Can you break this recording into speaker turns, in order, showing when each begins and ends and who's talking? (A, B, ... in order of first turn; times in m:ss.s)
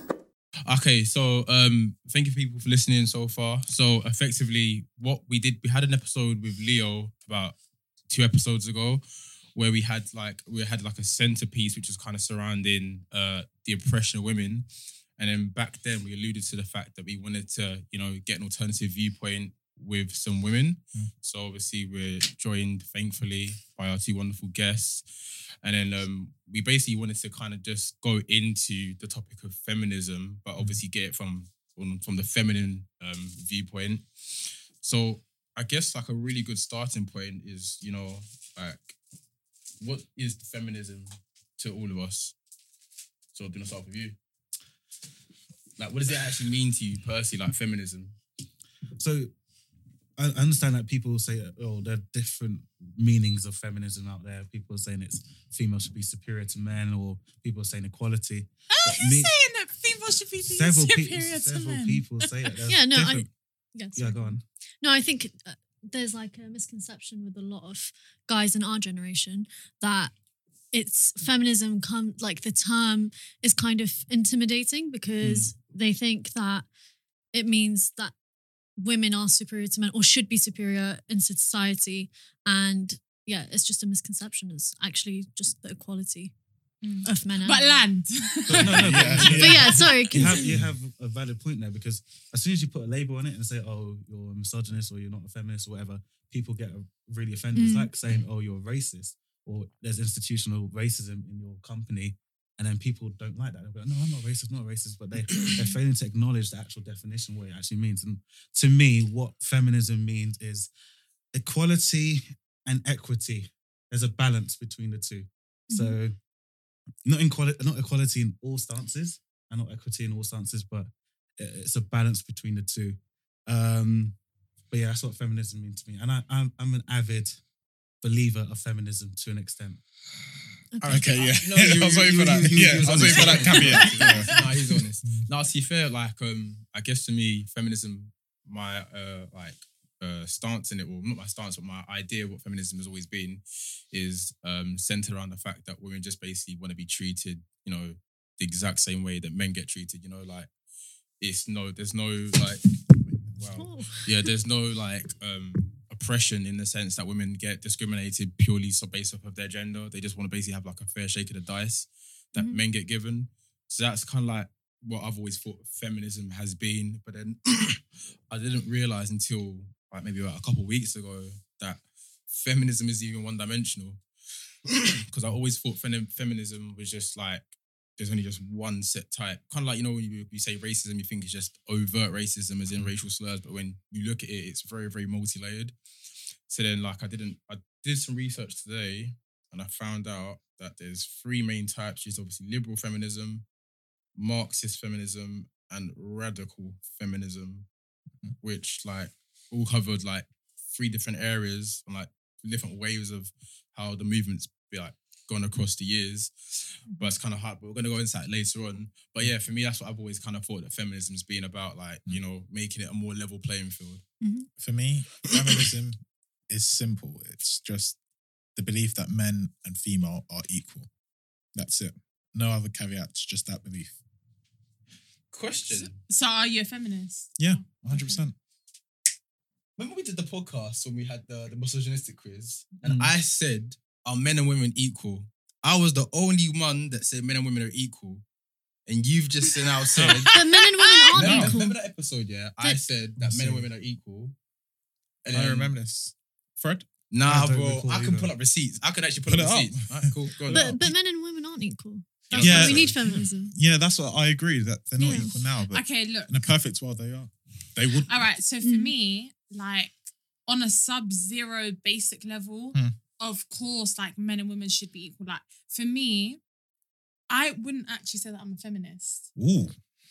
0:00.6-0:07.6 A
0:08.1-0:09.0 A
0:09.5-0:14.7 A
0:15.2-0:25.0 A
0:25.6-0:39.0 A
0:39.8-0:42.3 A
0:43.3-0:44.2 A
0:45.8-0:48.2 A
0:49.0-0:49.3 B
0:50.2-0:59.3 B
0:58.8-1:02.5 C
1:00.4-1:02.9 B
1:02.7-1:10.1 D
1:02.9-1:03.3 E
1:04.0-1:04.4 B
1:10.7-1:16.6 D
1:15.2-1:15.5 E
1:17.3-1:18.1 D
1:18.8-1:26.3 D
1:26.8-1:29.7 C
1:27.0-1:27.8 D
1:28.5-1:29.8 E
1:28.5-1:50.7 B
1:29.4-1:30.5 D
1:37.5-1:37.9 D
1:45.4-1:45.6 D
1:51.3-1:56.2 B
1:55.7-1:56.0 D
1:57.0-2:04.2 B
2:04.7-2:07.4 B
2:08.0-2:09.8 B
2:10.7-2:11.1 D
2:10.8-2:30.5 A
2:10.8-2:14.5 E
2:12.5-2:13.6 B
2:13.0-2:14.7 C
2:31.2-2:32.7 A
2:33.3-2:54.0 A
2:33.5-2:34.3 D
2:54.7-2:57.4 A
2:58.0-3:05.7 A
3:06.5-3:13.4 A
3:14.2-3:17.7 A
3:18.4-3:34.0 A
3:34.2-3:34.5 D
3:34.6-3:38.0 E
3:38.5-3:40.9 E
3:41.5-3:43.9 E
3:45.3-3:46.0 A
3:45.7-3:48.2 C
3:47.4-3:48.4 E
3:49.8-3:58.2 A
3:52.8-3:53.1 B
3:58.9-4:00.4 A
4:00.0-4:00.2 E
4:00.0-4:01.2 C
4:00.3-4:01.8 D
4:01.1-4:01.6 E
4:01.1-4:04.4 A
4:03.2-4:03.6 E
4:05.2-4:05.7 A
4:05.3-4:06.9 E
4:07.1-4:10.8 A
4:07.2-4:08.3 B
4:09.3-4:10.8 E
4:10.5-4:13.5 D
4:12.3-4:12.9 A
4:12.4-4:13.0 E
4:12.4-4:13.3 B
4:13.5-4:18.1 E
4:15.0-4:15.3 D
4:15.7-4:16.4 C
4:18.0-4:26.4 C
4:18.6-4:18.9 D
4:27.3-4:29.3 C
4:29.4-4:29.7 E